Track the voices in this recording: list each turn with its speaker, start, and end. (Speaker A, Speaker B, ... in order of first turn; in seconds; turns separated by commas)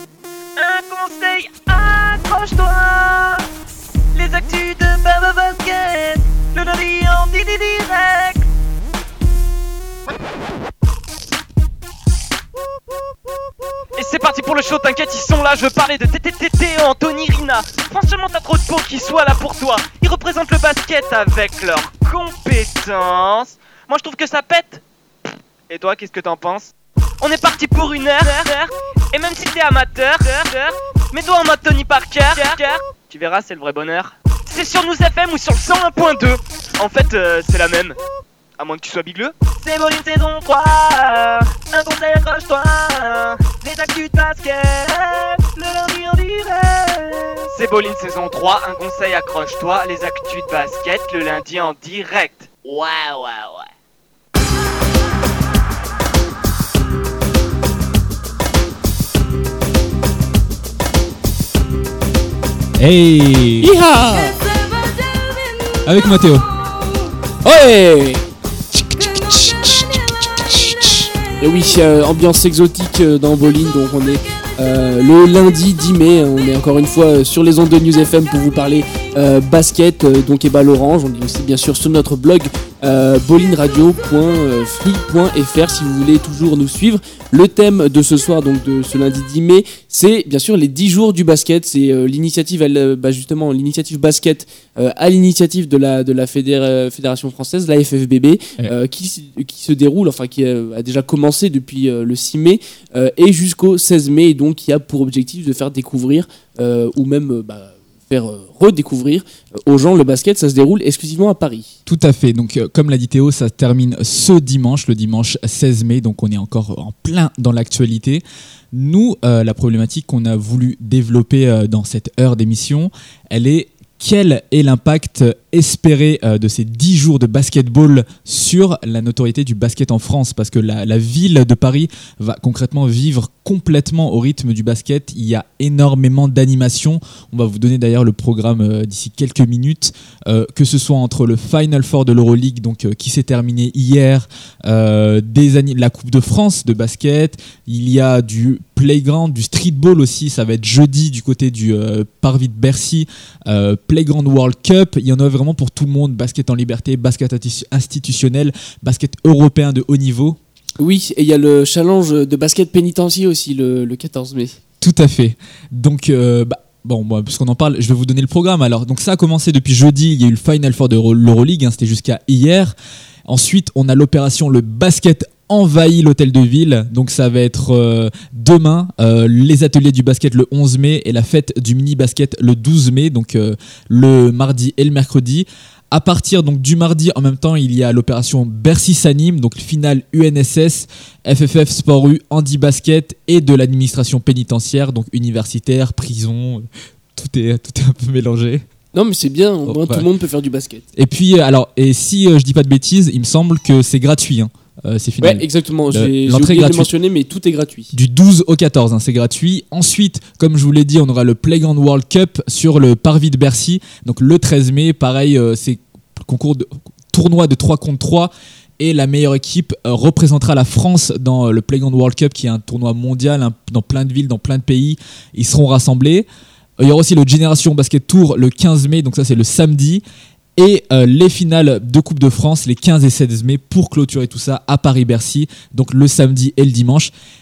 Speaker A: 0.6-3.5, Speaker A: 4.1-8.5, Speaker A: 14.0-24.8, Speaker A: 25.7-38.0, Speaker A: 38.6-53.7, Speaker B: 62.8-63.7, Speaker C: 63.6-64.4, Speaker B: 65.9-66.5, Speaker C: 67.4-111.7, Speaker B: 111.9-160.4, Speaker C: 160.8-164.6, Speaker B: 164.8-172.8, Speaker B: 173.3-198.7, Speaker C: 198.9-200.9, Speaker B: 199.7-200.1, Speaker B: 200.9-206.9, Speaker C: 205.2-207.9, Speaker B: 207.9-226.3, Speaker B: 226.8-230.0, Speaker B: 230.6-237.1